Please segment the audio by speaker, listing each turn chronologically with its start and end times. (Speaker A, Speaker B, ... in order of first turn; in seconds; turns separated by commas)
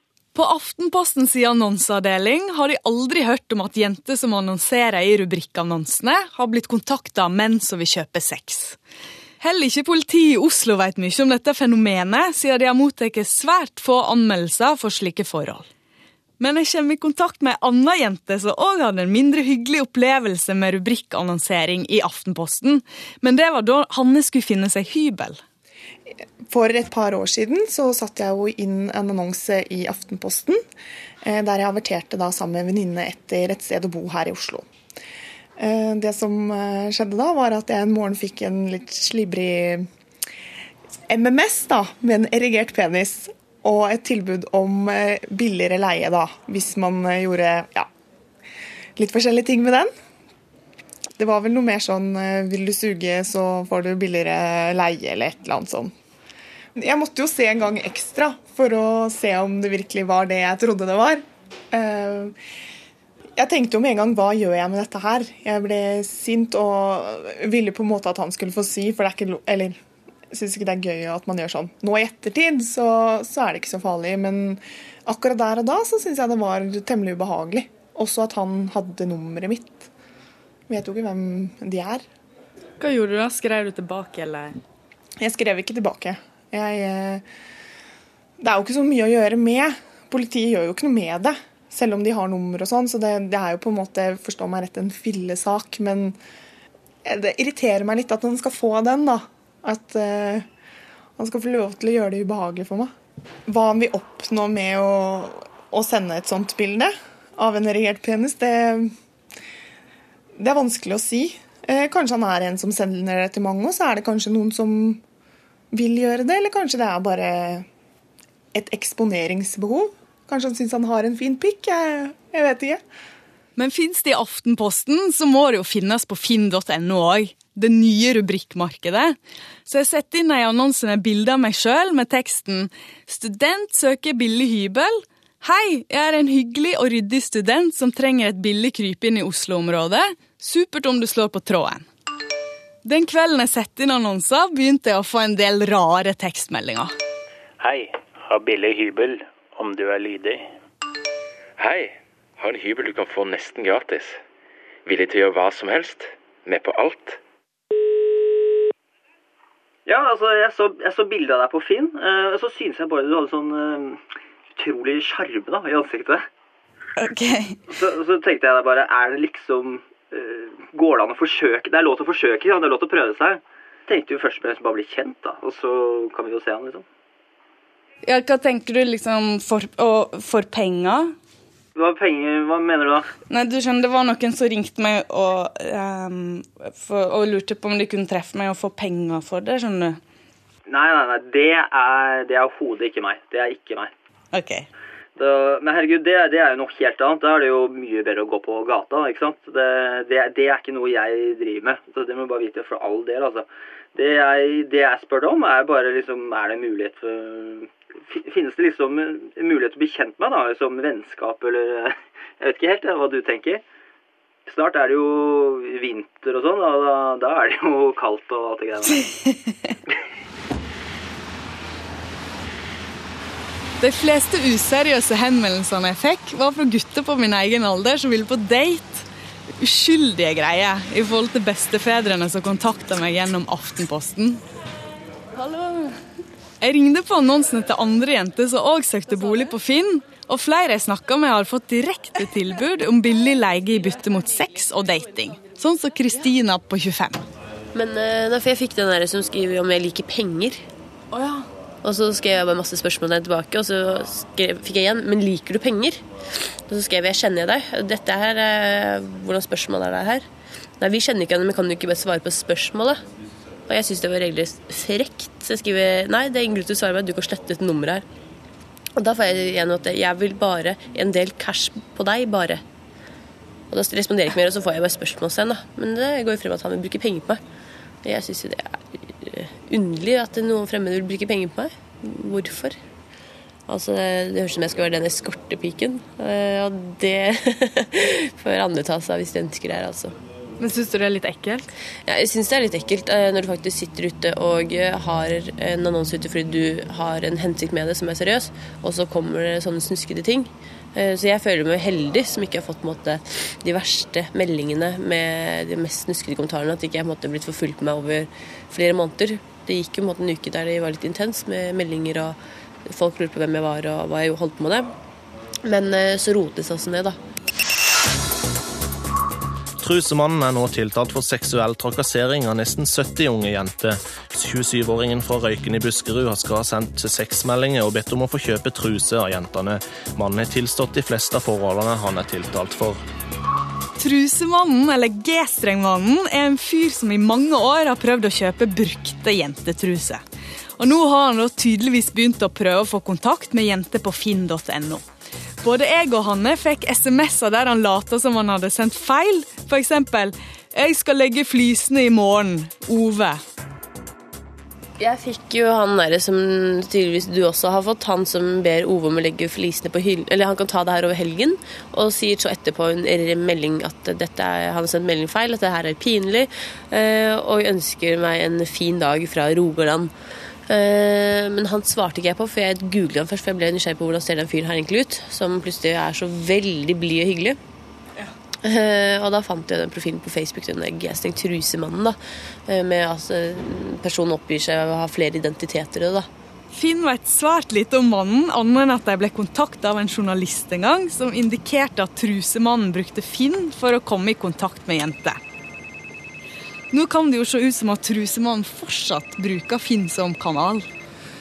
Speaker A: 0.3-8.8, Speaker A: 9.4-15.7, Speaker A: 16.4-25.4, Speaker B: 26.5-30.6, Speaker B: 31.2-34.6, Speaker B: 35.6-39.9, Speaker B: 41.1-47.9, Speaker B: 49.0-49.9, Speaker B: 51.2-55.9, Speaker B: 56.8-62.3, Speaker B: 63.4-69.8, Speaker B: 70.3-79.9, Speaker B: 80.7-82.0, Speaker A: 82.8-84.6, Speaker B: 85.2-87.2, Speaker B: 88.4-96.2, Speaker B: 97.0-100.5, Speaker B: 101.2-102.9, Speaker B: 103.5-108.9, Speaker B: 110.4-115.0, Speaker B: 115.7-117.7, Speaker B: 118.5-122.8, Speaker A: 123.5-141.8, Speaker A: 142.8-146.9, Speaker C: 147.6-150.5, Speaker D: 151.6-154.2, Speaker D: 154.8-157.2, Speaker E: 159.8-166.2, Speaker A: 167.0-167.6, Speaker E: 167.7-176.8, Speaker A: 178.0-181.1, Speaker E: 181.7-183.1, Speaker A: 183.3-190.0, Speaker E: 190.7-193.9, Speaker A: 194.3-194.7, Speaker E: 195.2-213.6, Speaker E: 214.5-219.1, Speaker A: 223.8-229.1, Speaker A: 229.6-234.4, Speaker A: 235.3-236.0, Speaker A: 236.6-247.2, Speaker F: 247.7-250.6, Speaker A: 251.1-251.4, Speaker F: 251.8-256.0, Speaker F: 256.6-260.2, Speaker F: 260.8-263.0, Speaker F: 263.7-268.0, Speaker F: 269.0-272.6, Speaker F: 273.7-277.4, Speaker F: 278.0-282.8, Speaker F: 283.7-290.1, Speaker A: 290.6-291.7, Speaker F: 292.1-314.9, Speaker F: 315.6-317.2, Speaker G: 319.8-333.0, Speaker A: 334.0-340.2, Speaker A: 340.8-345.1, Speaker A: 345.6-353.4, Speaker F: 355.0-370.1, Speaker F: 370.7-377.6, Speaker F: 378.6-386.3, Speaker A: 386.7-395.4, Speaker A: 396.9-400.9